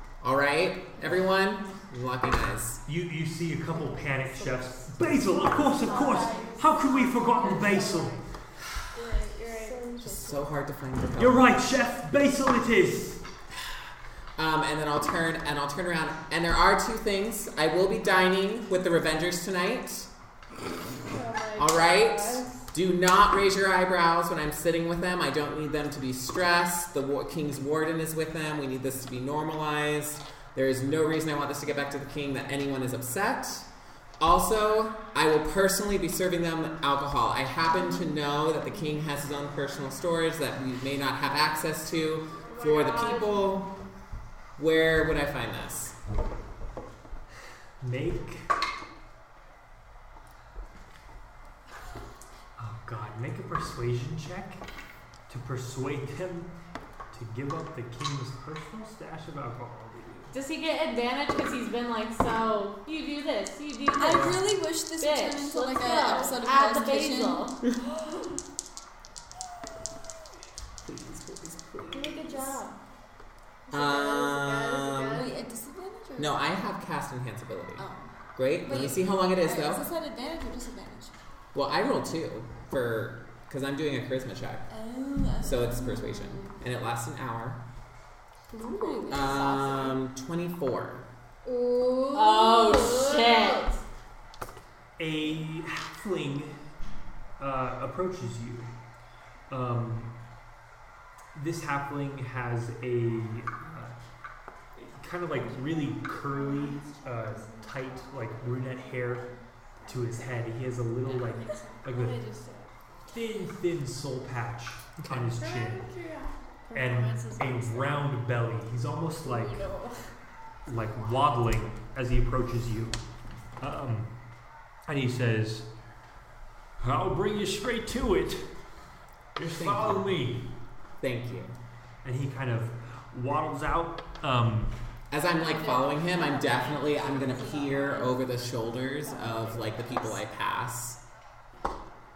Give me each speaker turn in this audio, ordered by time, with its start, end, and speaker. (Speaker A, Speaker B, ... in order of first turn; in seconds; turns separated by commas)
Speaker A: 0.2-2.8, Speaker B: 2.9-8.2, Speaker C: 5.6-8.2, Speaker C: 8.9-9.9, Speaker A: 10.0-11.5, Speaker B: 11.2-13.2, Speaker A: 14.4-20.1, Speaker C: 21.1-22.6, Speaker A: 21.6-33.6, Speaker A: 34.2-43.7, Speaker C: 42.5-43.5, Speaker A: 44.6-46.0, Speaker B: 47.8-48.5, Speaker B: 52.6-54.6, Speaker B: 55.3-56.5, Speaker B: 57.1-60.3, Speaker D: 60.3-67.6, Speaker E: 63.9-67.5, Speaker A: 70.8-72.2, Speaker C: 71.9-72.7, Speaker D: 72.2-72.5, Speaker C: 73.7-75.3, Speaker A: 73.7-75.3, Speaker E: 75.1-76.4, Speaker A: 76.2-79.8, Speaker E: 77.8-78.1, Speaker E: 78.6-81.2, Speaker A: 81.5-84.7, Speaker E: 84.7-86.6, Speaker A: 85.4-87.6, Speaker C: 88.5-89.3, Speaker E: 88.6-89.7, Speaker A: 89.1-91.0, Speaker C: 91.4-93.7, Speaker D: 92.1-93.8, Speaker B: 95.0-96.5, Speaker B: 97.4-98.7, Speaker B: 99.5-100.1, Speaker B: 101.3-104.0, Speaker B: 104.8-109.3, Speaker C: 105.4-110.5, Speaker B: 109.9-112.2, Speaker C: 111.0-112.7, Speaker B: 113.1-115.9, Speaker A: 115.0-115.3, Speaker C: 115.3-118.0, Speaker B: 116.7-119.6, Speaker C: 119.2-120.0, Speaker B: 120.7-123.0, Speaker B: 123.6-124.1, Speaker B: 124.9-125.7, Speaker B: 126.8-128.5, Speaker B: 129.3-130.4, Speaker A: 129.4-130.1, Speaker A: 131.0-131.5, Speaker B: 132.0-134.7, Speaker A: 135.1-141.0, Speaker C: 136.2-138.1, Speaker C: 139.1-140.0